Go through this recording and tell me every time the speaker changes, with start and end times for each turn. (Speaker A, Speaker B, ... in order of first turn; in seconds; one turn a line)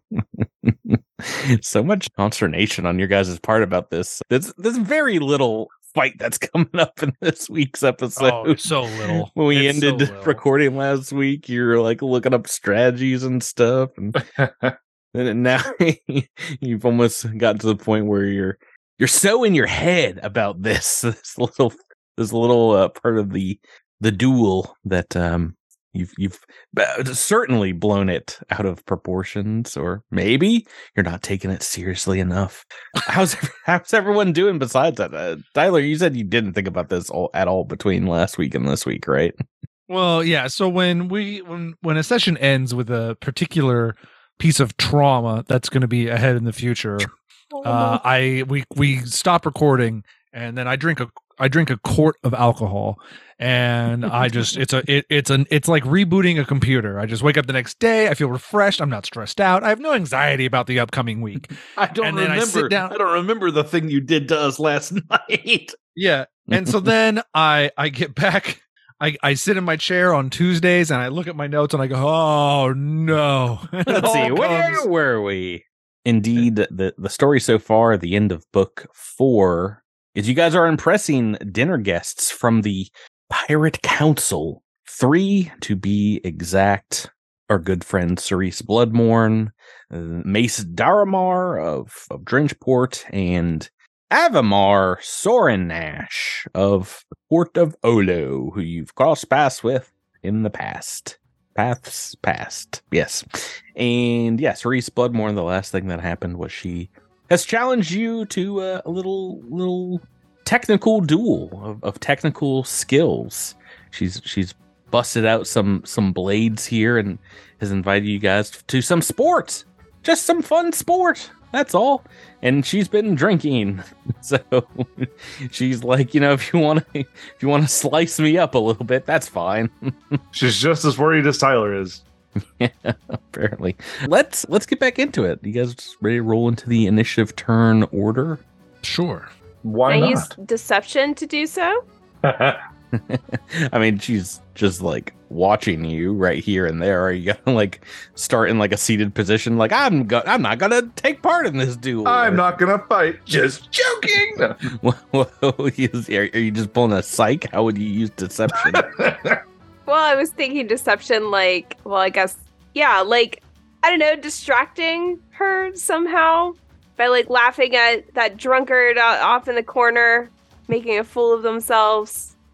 Speaker A: 0.1-14.2
Speaker B: 8.2-10.4
Speaker C: 14.3-14.7
Speaker A: 15.1-39.3
Speaker B: 39.9-47.1
Speaker B: 47.6-62.9
Speaker D: 61.8-65.8
Speaker B: 66.0-74.8
Speaker A: 66.5-66.9
Speaker A: 73.8-130.2
Speaker D: 74.2-74.8
Speaker C: 130.3-132.0
Speaker A: 132.6-138.4
Speaker B: 138.8-139.2
Speaker C: 139.6-140.3
Speaker E: 139.8-141.8
Speaker C: 142.2-142.6
Speaker A: 142.9-152.4
Speaker C: 152.0-154.6
Speaker A: 154.6-158.9
Speaker C: 158.7-159.3
Speaker E: 159.9-172.3